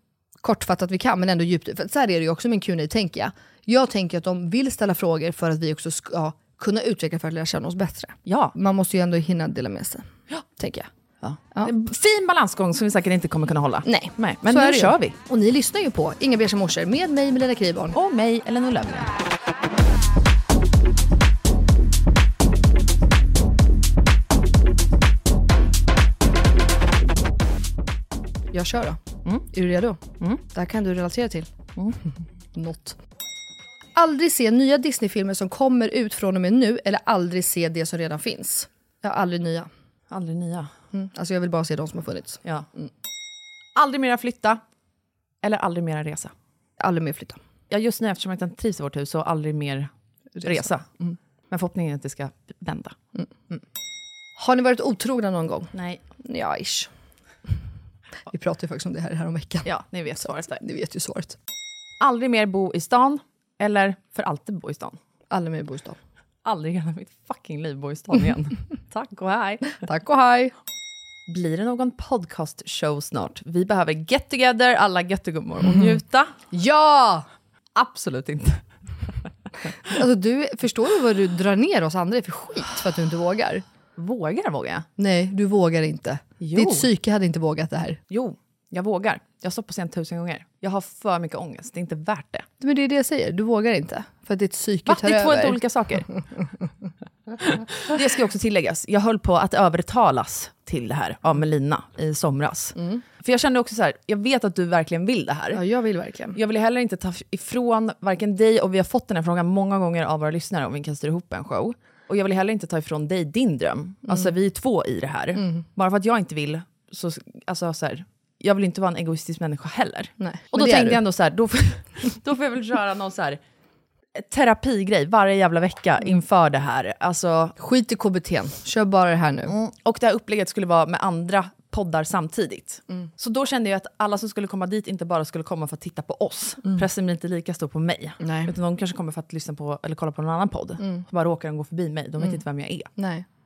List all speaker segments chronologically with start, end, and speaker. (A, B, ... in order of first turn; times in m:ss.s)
0:00.4-0:10.0 A
0:08.2-0:08.5 B
0:10.6-0:10.9 A
0:11.2-0:15.2 B
0:13.8-0:18.0 A
0:17.9-0:19.1 B
0:28.5-0:30.0 A
0:30.5-0:31.5 A
0:32.5-0:33.0 A
0:34.0-0:39.7 A
0:40.1-0:40.7 B
0:40.9-0:42.9 A
0:43.8-0:44.6 B
0:45.4-0:46.3 B
0:46.8-0:47.4 A
0:47.7-0:49.9 B
0:50.3-0:51.2 A
0:50.4-0:50.8 B
0:51.5-0:53.0 B
0:54.4-0:56.9 A
0:55.7-0:56.0 B
0:58.3-1:01.4 A
0:59.6-1:00.6 B
1:02.0-1:05.0 B
1:05.3-1:06.0 A
1:06.4-1:09.8 B
1:09.8-1:10.5 A
1:11.3-1:16.3 B
1:15.7-1:16.0 A
1:16.5-1:17.2 A
1:17.7-1:18.6 B
1:19.8-1:23.6 A
1:24.0-1:24.9 B
1:25.0-1:28.0 A
1:26.4-1:26.9 B
1:28.1-1:32.5 B
1:32.6-1:35.6 A
1:34.8-1:36.1 B
1:37.4-1:45.6 B
1:42.8-1:43.0 A
1:45.5-1:46.4 A
1:46.3-2:03.4 B
1:54.1-1:54.3 A
1:55.4-1:55.6 A
2:00.2-2:01.0 A
2:04.1-2:07.6 B
2:07.6-2:09.5 A
2:09.4-2:22.9 B
2:18.2-2:18.5 A
2:23.0-2:23.2 A